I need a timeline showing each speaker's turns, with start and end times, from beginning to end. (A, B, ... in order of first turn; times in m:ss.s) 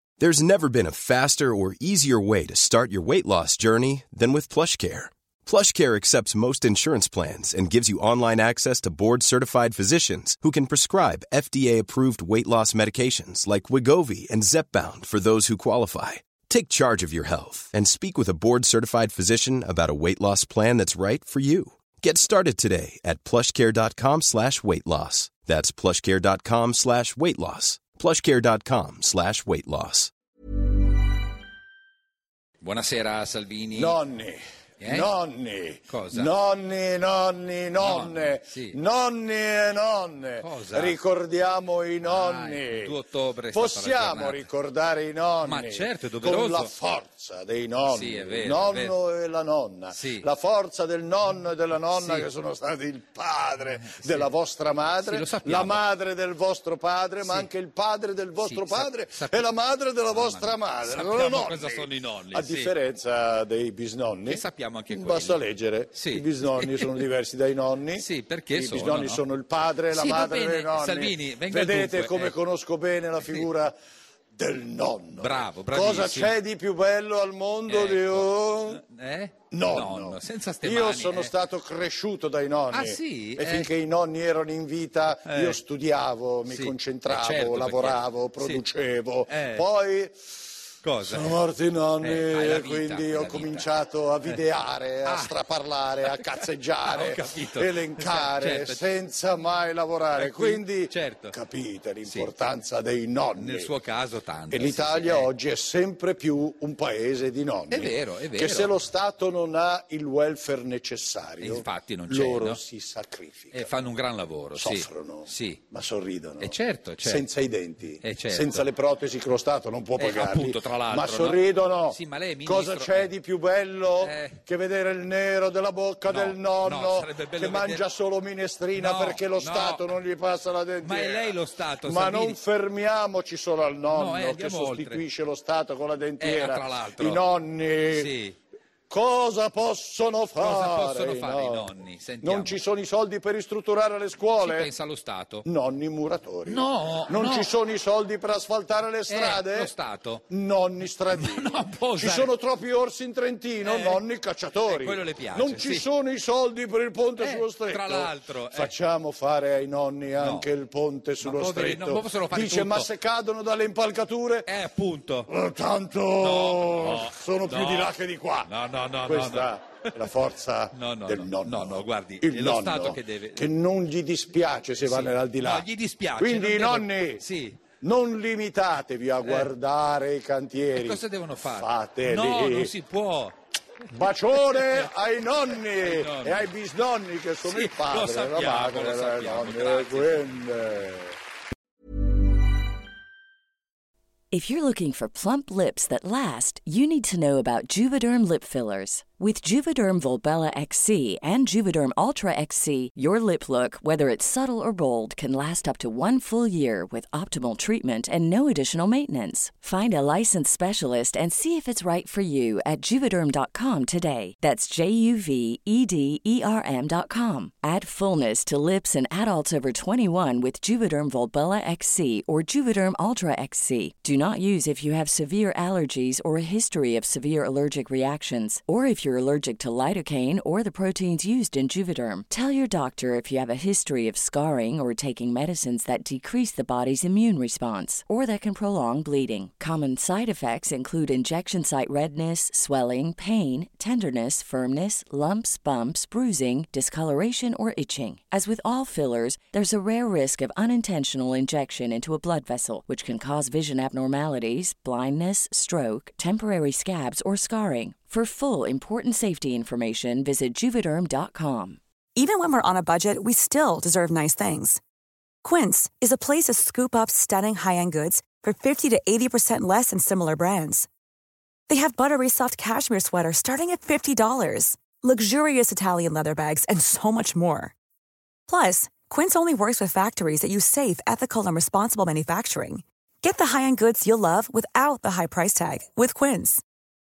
0:00.2-0:30.1 A
0:32.6-0:34.0 B
0:33.8-0:43.0 C
0:34.8-0:35.1 B
0:35.9-0:36.3 B
0:37.8-0:38.8 B
0:40.4-0:41.0 B
0:42.0-0:44.5 B
0:43.5-1:13.7 C
0:45.4-0:46.7 B
0:47.8-0:49.0 B
0:49.9-0:50.3 B
0:51.8-0:52.3 B
0:53.6-0:54.3 B
0:54.9-0:55.8 B
0:57.2-0:57.5 B
0:58.4-0:59.5 B
1:00.1-1:02.8 B
1:04.3-1:07.0 B
1:08.0-1:09.2 B
1:09.9-1:12.4 B
1:13.2-1:13.5 B
1:14.4-1:18.8 C
1:15.1-1:16.4 B
1:17.7-1:21.4 B
1:19.5-1:30.1 C
1:22.7-1:23.7 B
1:25.2-1:25.6 B
1:26.5-1:28.6 B
1:29.3-1:29.7 B
1:30.8-1:31.4 B
1:31.0-1:43.7 C
1:32.0-1:33.7 B
1:35.0-1:35.4 B
1:36.0-1:38.8 B
1:40.2-1:41.4 B
1:42.0-1:42.3 B
1:43.4-1:45.3 B
1:44.5-1:53.7 C
1:47.7-1:48.8 B
1:51.4-1:52.6 B
1:53.5-1:55.6 B
1:54.6-2:18.1 C
1:56.4-1:57.3 B
1:58.0-1:58.7 B
2:00.0-2:03.1 B
2:04.0-2:04.4 B
2:06.1-2:07.8 B
2:08.7-2:10.0 B
2:10.8-2:12.4 B
2:13.9-2:15.0 B
2:16.2-2:17.2 B
2:17.9-2:18.4 B
2:18.9-2:21.7 C
2:20.4-2:22.6 B
2:22.2-2:24.7 C
2:24.4-2:25.5 B
2:25.4-2:29.7 C
2:26.5-2:27.5 B
2:29.1-2:30.2 B
2:30.3-2:44.5 C
2:31.1-2:32.3 B
2:33.6-2:34.0 B
2:34.6-2:35.8 B
2:37.2-2:38.7 B
2:40.2-2:40.5 B
2:41.2-2:42.9 B
2:44.5-2:45.3 B
2:45.3-2:48.5 C
2:46.2-2:50.2 B
2:49.0-2:57.2 C
2:50.7-2:53.5 B
2:54.8-2:57.6 B
2:57.8-3:02.7 C
2:59.2-2:59.5 B
3:00.7-3:03.4 B
3:03.9-3:11.1 C
3:04.3-3:04.9 B
3:05.5-3:06.5 B
3:07.4-3:10.4 B
3:14.3-4:21.8 D
4:22.2-4:24.8 E
4:25.4-4:30.9 E
4:31.7-4:37.8 E
4:38.5-4:46.6 E